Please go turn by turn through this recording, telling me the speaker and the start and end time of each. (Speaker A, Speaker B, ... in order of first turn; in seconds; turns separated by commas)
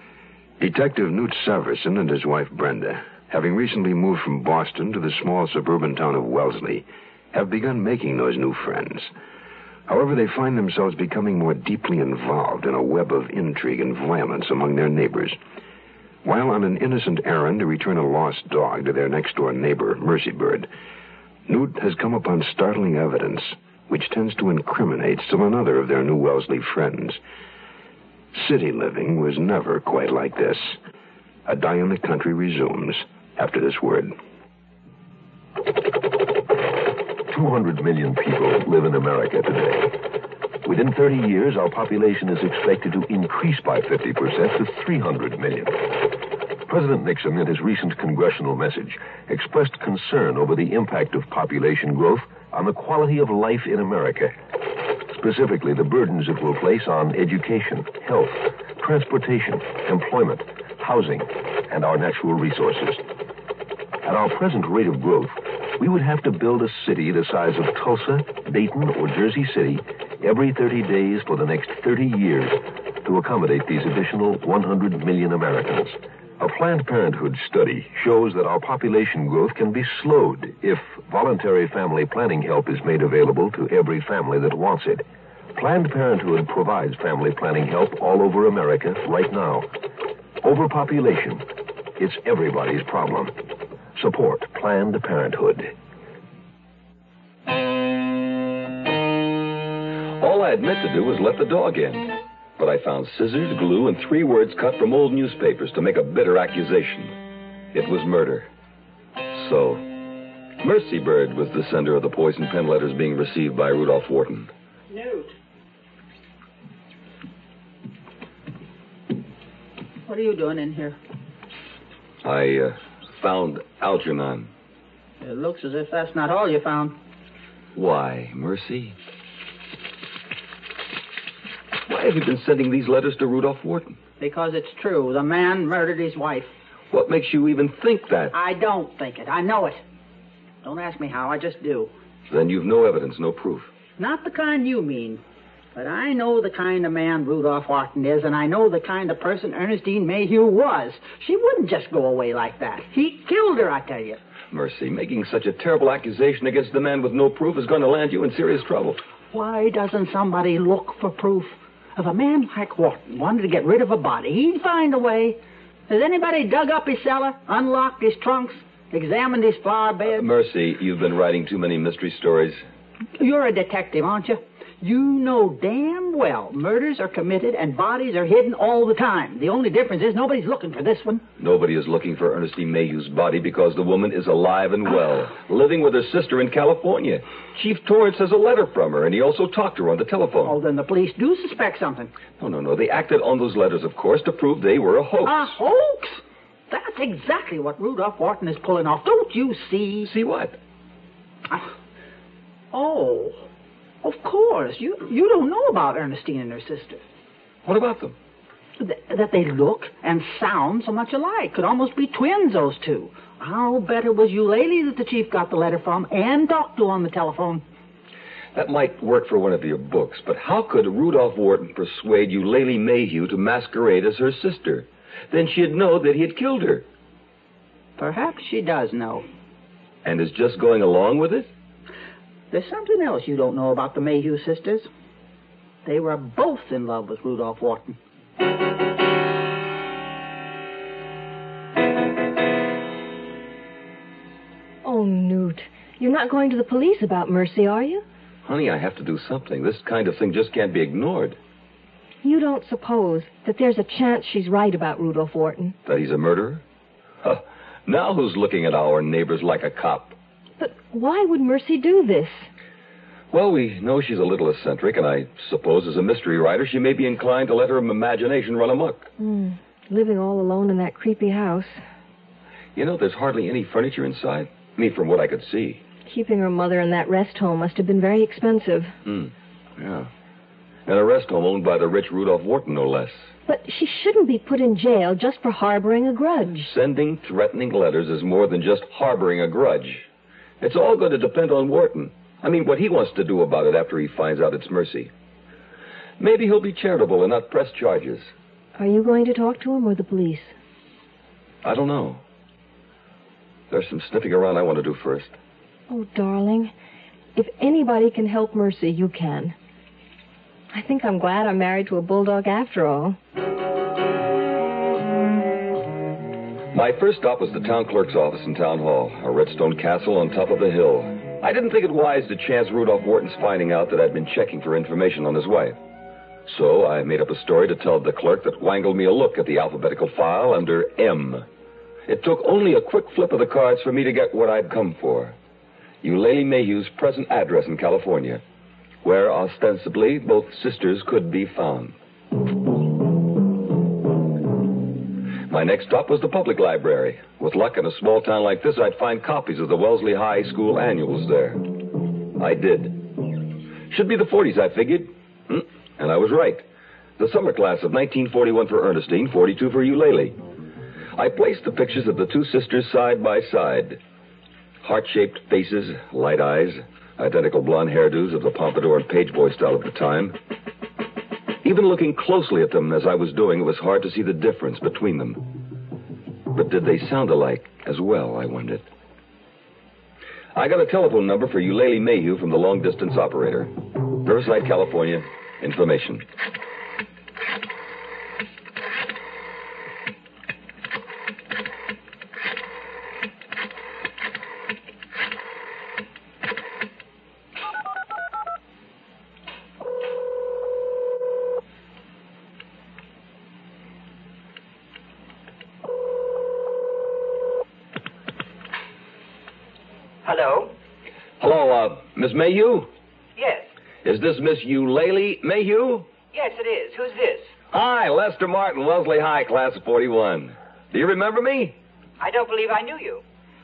Speaker A: 0.6-9.1, Speaker A: 9.9-15.4, Speaker A: 16.2-20.7, Speaker A: 21.5-27.2, Speaker A: 28.3-30.8, Speaker A: 31.4-34.1, Speaker B: 37.3-39.9, Speaker B: 40.6-46.1, Speaker B: 46.7-54.3, Speaker B: 55.1-63.0, Speaker B: 64.0-89.7, Speaker B: 90.4-91.5, Speaker B: 92.0-93.3, Speaker B: 93.9-95.7, Speaker C: 100.2-107.1, Speaker C: 107.7-108.5, Speaker C: 109.3-109.8, Speaker C: 110.6-114.5, Speaker D: 114.9-115.3, Speaker D: 120.0-121.0, Speaker C: 122.2-124.5, Speaker D: 125.2-127.0, Speaker C: 127.7-128.9, Speaker C: 131.9-133.9, Speaker D: 134.2-136.5, Speaker C: 136.9-138.3, Speaker D: 138.3-139.8, Speaker D: 140.6-141.9, Speaker C: 142.3-143.7, Speaker D: 144.0-145.2, Speaker D: 145.7-154.2, Speaker C: 154.5-159.0, Speaker D: 159.3-170.2, Speaker C: 170.1-172.6, Speaker D: 173.2-181.2, Speaker C: 181.4-190.6, Speaker D: 190.4-192.1, Speaker C: 192.4-195.6, Speaker D: 195.2-200.1, Speaker C: 200.0-200.6, Speaker D: 202.7-203.4, Speaker D: 204.0-207.0, Speaker C: 207.6-208.1, Speaker D: 208.8-217.6, Speaker C: 218.5-226.8, Speaker D: 228.0-229.2, Speaker C: 230.0-231.5, Speaker D: 232.5-234.9, Speaker D: 235.8-237.9, Speaker E: 244.8-248.0, Speaker C: 248.4-251.4, Speaker E: 252.2-255.8, Speaker C: 255.8-256.6, Speaker C: 257.2-260.1, Speaker E: 260.6-262.5, Speaker C: 263.3-269.1, Speaker E: 269.2-271.8, Speaker C: 272.8-275.8, Speaker E: 276.1-278.9, Speaker C: 279.1-280.1, Speaker C: 280.9-283.3, Speaker E: 283.4-286.7, Speaker C: 286.6-290.1, Speaker C: 290.6-295.1, Speaker C: 296.2-298.3, Speaker E: 298.8-300.5, Speaker C: 301.6-302.2, Speaker C: 303.7-305.4, Speaker E: 305.9-306.7, Speaker E: 307.3-309.5, Speaker E: 310.7-313.2, Speaker C: 316.7-325.8, Speaker C: 326.4-331.4, Speaker C: 332.1-335.3, Speaker C: 336.0-338.4, Speaker C: 339.0-341.9, Speaker C: 345.5-351.7, Speaker C: 352.3-353.2, Speaker C: 353.9-356.6, Speaker C: 357.2-360.4, Speaker C: 361.1-364.0, Speaker C: 364.8-370.4, Speaker C: 371.6-375.6, Speaker C: 376.5-378.8, Speaker C: 380.5-386.2, Speaker F: 410.2-410.7, Speaker C: 411.4-412.9, Speaker F: 413.4-413.7, Speaker C: 414.0-416.1, Speaker F: 416.3-417.5, Speaker C: 417.7-421.7, Speaker F: 422.2-423.2